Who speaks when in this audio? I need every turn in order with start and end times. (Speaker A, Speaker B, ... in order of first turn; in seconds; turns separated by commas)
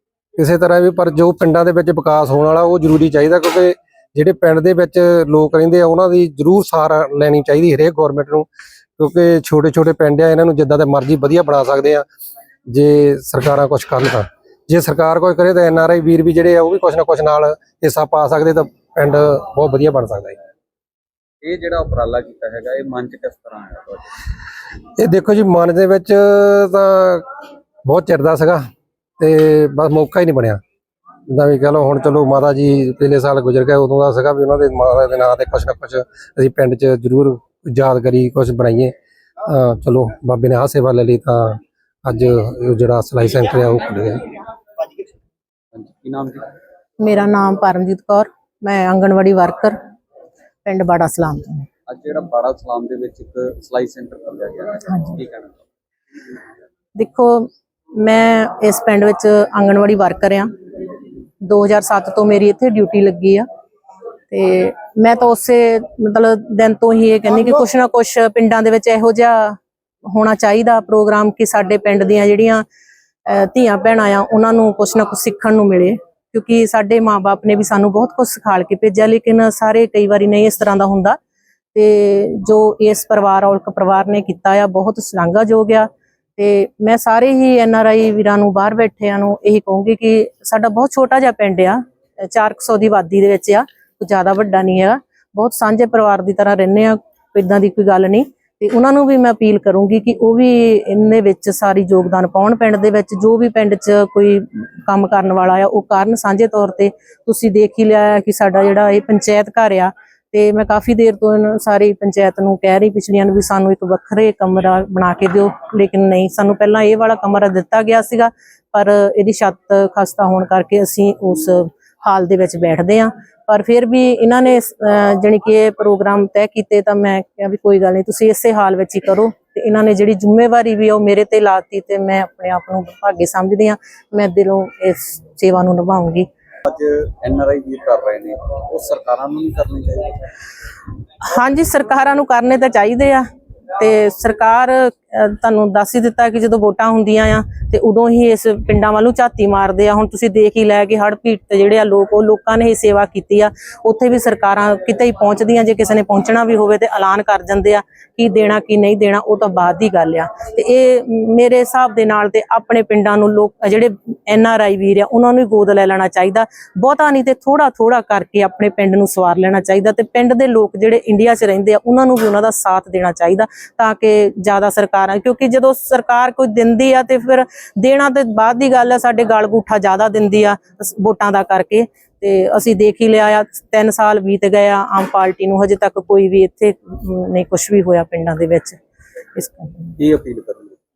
Speaker A: 0.3-8.5, Speaker A: 9.0-12.0, Speaker A: 12.7-20.4, Speaker B: 21.4-24.0, Speaker A: 25.0-27.2, Speaker A: 27.9-28.6, Speaker A: 29.2-30.6, Speaker A: 31.3-38.9, Speaker A: 39.5-44.2, Speaker B: 45.7-46.5, Speaker C: 47.0-49.8, Speaker C: 50.6-51.6, Speaker B: 51.9-55.6, Speaker C: 57.0-60.5, Speaker C: 61.4-63.5, Speaker C: 64.3-69.6, Speaker C: 70.1-72.6, Speaker C: 73.3-81.2, Speaker C: 81.7-136.3, Speaker B: 136.7-140.2, Speaker C: 141.2-188.8, Speaker C: 189.3-189.9, Speaker B: 190.0-190.8